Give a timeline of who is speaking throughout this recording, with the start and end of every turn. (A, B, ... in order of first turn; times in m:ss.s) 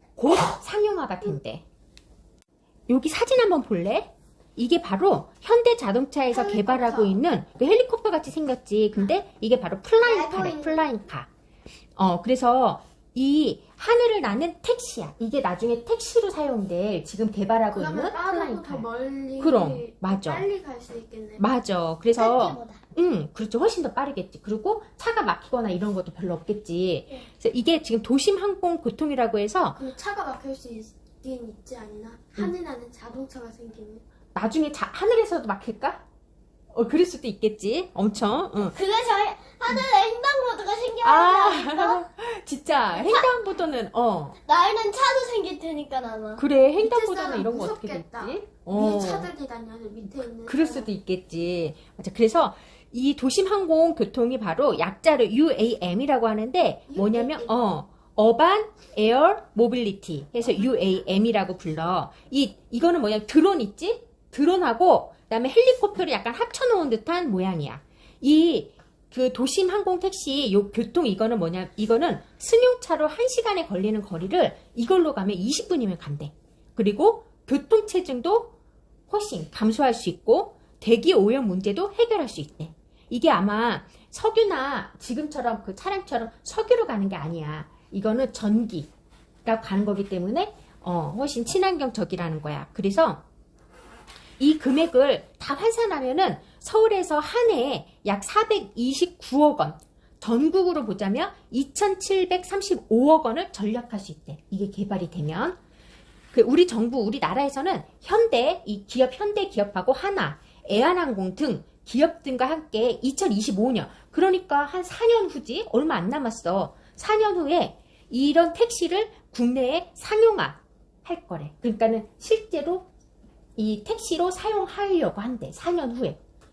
0:00.2-0:01.6 A
0:02.9-0:11.3 A
0:06.3-0:07.2 B
0:10.0-0:10.9 C
0:12.0-0:18.9 A
0:17.7-0:21.4 B
0:19.4-0:20.5 A
0:21.4-0:29.8 A
0:22.1-0:22.8 C
0:29.8-0:34.0 B
0:34.3-0:36.0 A
0:36.7-0:38.8 A
0:38.7-0:42.0 C
0:41.0-0:44.4 A
0:42.9-0:43.3 C
0:44.5-0:46.4 C
0:46.4-0:49.3 A
0:46.8-0:50.9 B
0:50.4-1:18.6 A
0:56.9-0:57.5 B
1:19.1-1:28.9 A
1:29.4-1:33.2 A
1:34.4-1:45.6 A
1:46.3-2:02.9 A
2:03.6-2:06.2 A